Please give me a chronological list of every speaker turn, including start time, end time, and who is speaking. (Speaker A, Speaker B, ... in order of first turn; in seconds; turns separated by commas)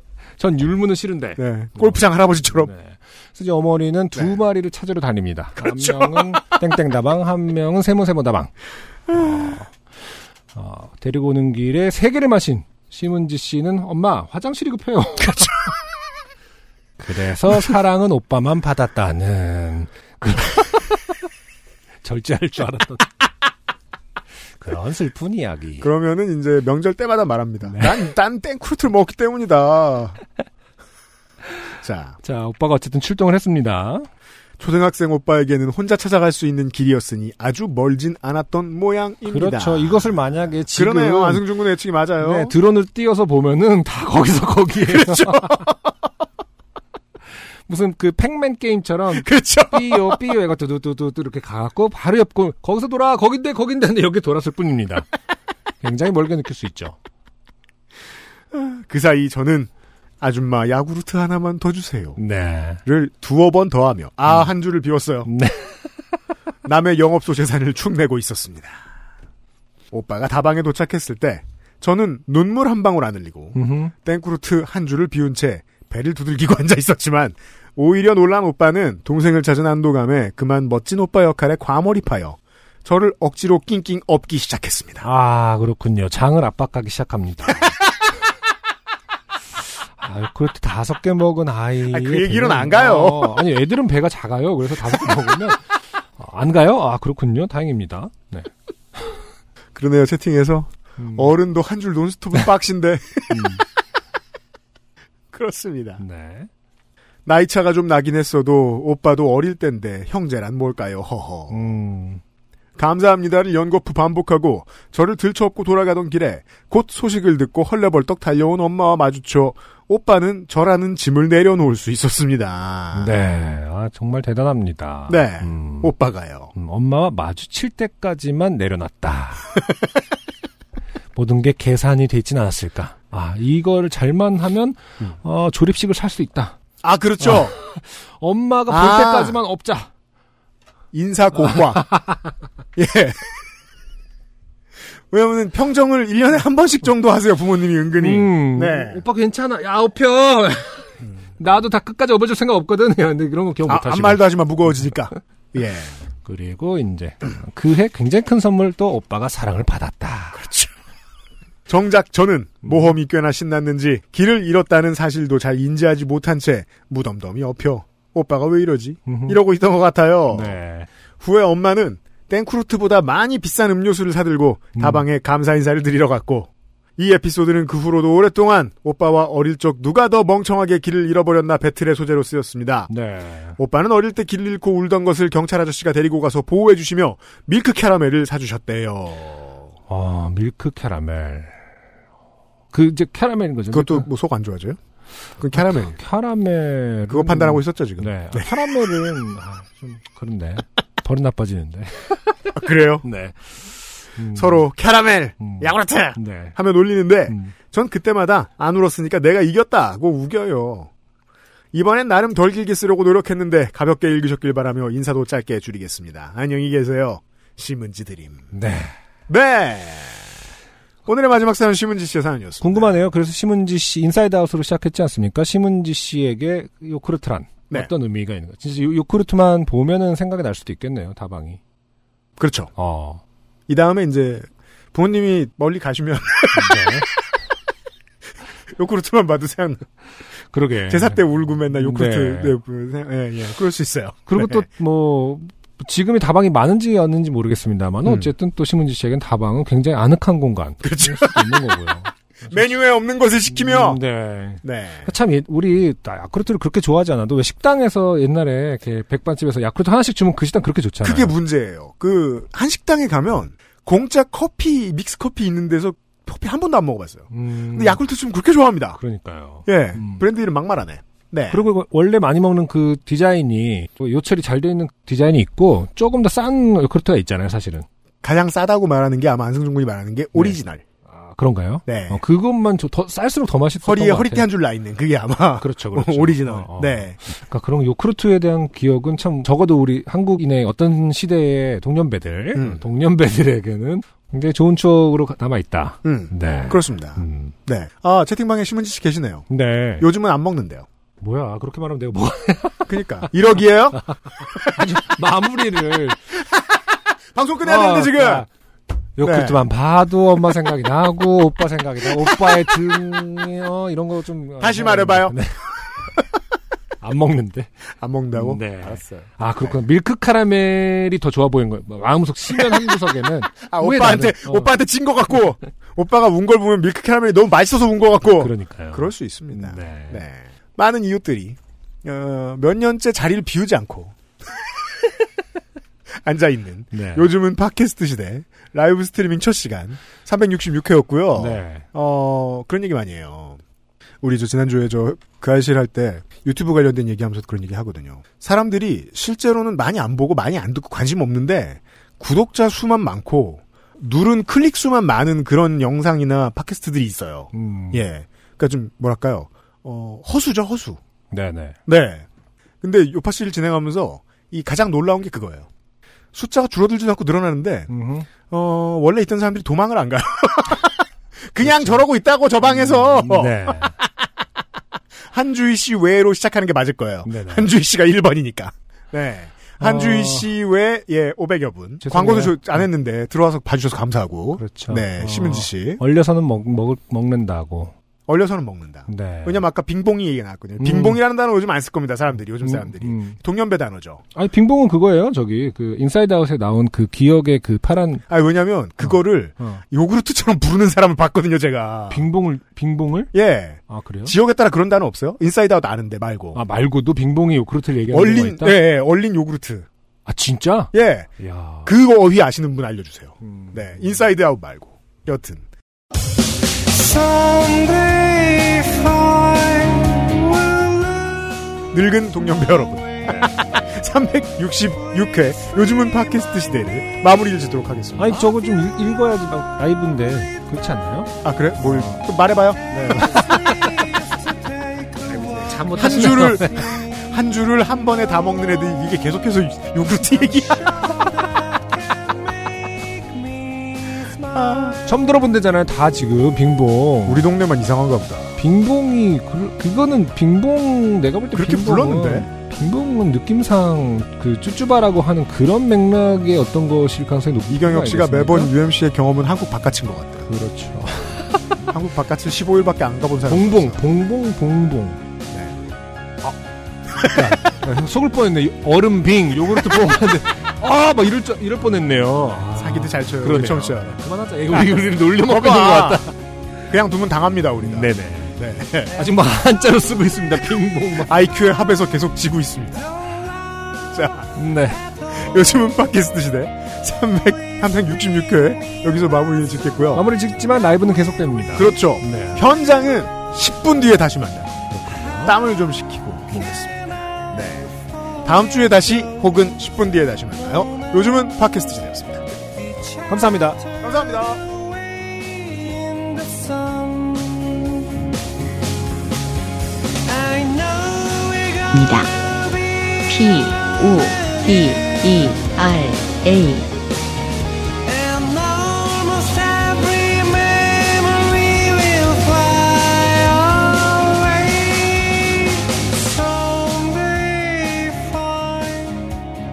Speaker A: 0.4-2.0, Speaker B: 1.4-2.7, Speaker A: 2.6-8.5, Speaker B: 5.6-6.4, Speaker B: 9.1-9.5, Speaker A: 9.1-9.8, Speaker A: 10.5-15.6, Speaker A: 17.0-21.0, Speaker A: 22.0-23.1, Speaker A: 24.6-25.9, Speaker B: 25.8-30.2, Speaker A: 27.7-28.0, Speaker B: 31.8-32.2, Speaker A: 32.2-34.1, Speaker B: 34.6-40.1, Speaker A: 39.3-41.5, Speaker B: 40.7-42.5, Speaker A: 42.2-45.6, Speaker B: 44.9-45.9, Speaker A: 47.6-55.1, Speaker B: 49.1-50.2, Speaker A: 55.8-57.0, Speaker B: 58.5-62.2, Speaker A: 62.2-62.8, Speaker B: 62.8-65.3, Speaker A: 65.2-66.0, Speaker B: 66.6-68.8, Speaker B: 69.9-85.0, Speaker A: 73.5-73.9, Speaker A: 85.0-87.7, Speaker A: 90.0-99.2, Speaker B: 91.9-93.4, Speaker B: 99.7-103.6, Speaker A: 101.0-101.3, Speaker A: 103.3-103.6, Speaker B: 105.3-106.0, Speaker A: 106.0-106.5, Speaker B: 107.2-111.6, Speaker A: 111.5-112.2, Speaker B: 112.8-123.1, Speaker A: 122.9-125.9, Speaker B: 125.1-126.5, Speaker A: 126.5-129.5, Speaker A: 131.1-136.6, Speaker B: 136.8-137.5, Speaker A: 137.2-139.9, Speaker B: 138.7-139.4, Speaker B: 140.9-141.9, Speaker A: 141.8-142.2, Speaker B: 142.8-143.4, Speaker B: 145.1-149.0, Speaker A: 148.0-154.3, Speaker B: 153.7-156.0, Speaker A: 156.2-160.4, Speaker B: 160.3-160.7, Speaker B: 161.7-170.6, Speaker A: 162.6-162.9, Speaker A: 169.1-169.4, Speaker A: 170.3-170.9, Speaker B: 171.2-182.9, Speaker A: 174.8-175.0, Speaker A: 182.9-183.6, Speaker B: 183.6-189.7, Speaker A: 189.9-191.6, Speaker A: 192.7-194.1, Speaker B: 193.7-194.8, Speaker B: 195.4-196.0, Speaker A: 195.5-204.6, Speaker B: 197.1-198.5, Speaker B: 202.6-203.0, Speaker B: 204.3-210.9, Speaker A: 205.4-206.5, Speaker B: 211.7-218.4, Speaker A: 218.5-218.9, Speaker B: 219.3-220.3, Speaker B: 221.1-223.0, Speaker A: 222.6-231.6, Speaker B: 232.4-232.7, Speaker A: 232.8-233.2, Speaker B: 233.7-236.9, Speaker A: 236.5-237.1, Speaker B: 238.7-239.8, Speaker A: 240.5-242.6, Speaker B: 240.9-244.7, Speaker A: 244.3-252.7, Speaker B: 248.0-248.3, Speaker B: 250.8-251.6, Speaker B: 252.5-254.0, Speaker A: 253.5-261.3, Speaker B: 254.6-255.1, Speaker B: 261.0-269.0, Speaker A: 267.3-268.0, Speaker A: 269.0-270.2, Speaker B: 269.6-271.6, Speaker A: 271.5-277.9, Speaker B: 278.2-280.8, Speaker A: 280.3-284.5, Speaker B: 281.9-282.2, Speaker B: 283.8-287.2, Speaker A: 285.6-297.5, Speaker B: 292.5-292.8, Speaker B: 296.0-299.5, Speaker A: 299.5-300.1, Speaker B: 300.0-300.9, Speaker A: 301.2-303.3, Speaker B: 302.9-304.8, Speaker A: 303.9-306.2, Speaker B: 307.3-308.4, Speaker A: 307.6-308.5, Speaker A: 309.2-315.6, Speaker B: 309.2-309.6, Speaker B: 314.6-315.4, Speaker A: 317.0-317.7, Speaker B: 318.0-319.8, Speaker A: 318.3-324.7, Speaker B: 322.6-322.9, Speaker B: 323.6-334.2, Speaker A: 328.3-330.2, Speaker B: 336.2-343.6, Speaker A: 336.9-337.3, Speaker A: 341.4-341.9, Speaker B: 344.2-361.0, Speaker A: 357.5-358.0, Speaker A: 361.3-361.8, Speaker B: 361.9-362.2, Speaker B: 362.8-365.7, Speaker B: 366.3-367.9, Speaker A: 367.9-368.3, Speaker B: 368.4-374.1, Speaker A: 371.6-372.0, Speaker A: 372.7-374.0, Speaker B: 375.3-386.0, Speaker A: 377.2-377.7, Speaker A: 379.8-380.5, Speaker A: 382.0-382.8, Speaker A: 384.6-387.9, Speaker B: 388.3-394.2, Speaker A: 389.1-389.6, Speaker A: 390.8-391.2, Speaker A: 392.6-393.4, Speaker A: 394.3-398.2, Speaker B: 398.3-402.2, Speaker A: 399.0-399.8, Speaker A: 402.1-403.3, Speaker B: 403.3-406.6, Speaker A: 403.9-404.3, Speaker A: 406.5-408.8, Speaker B: 408.1-409.9, Speaker A: 410.2-411.9, Speaker B: 410.9-411.3, Speaker B: 411.8-415.6, Speaker A: 413.4-413.8, Speaker C: 417.3-420.0, Speaker B: 421.7-428.4, Speaker A: 428.2-431.3, Speaker B: 431.4-433.3, Speaker A: 431.8-432.2, Speaker A: 432.9-434.1, Speaker A: 435.2-437.1, Speaker B: 435.8-441.3, Speaker B: 444.2-445.0, Speaker A: 445.0-447.4, Speaker B: 447.2-448.6, Speaker A: 448.6-458.7, Speaker B: 451.5-452.5, Speaker B: 457.7-460.4, Speaker A: 460.5-461.6, Speaker B: 461.9-464.0, Speaker A: 463.5-465.2, Speaker B: 465.5-465.8, Speaker B: 467.2-467.5, Speaker A: 467.2-476.4, Speaker B: 472.8-474.2, Speaker B: 474.7-476.2, Speaker B: 476.9-479.2, Speaker A: 477.8-478.6, Speaker A: 479.1-481.3, Speaker B: 481.2-483.0, Speaker B: 484.1-484.5, Speaker A: 484.5-485.1, Speaker B: 485.3-490.2, Speaker A: 490.1-492.6, Speaker B: 491.7-494.8, Speaker A: 494.9-495.5, Speaker B: 495.4-497.9, Speaker B: 498.4-502.5, Speaker A: 503.2-503.8, Speaker B: 504.0-504.6, Speaker C: 511.8-512.6, Speaker C: 513.2-516.9, Speaker C: 518.1-525.6, Speaker C: 526.4-529.1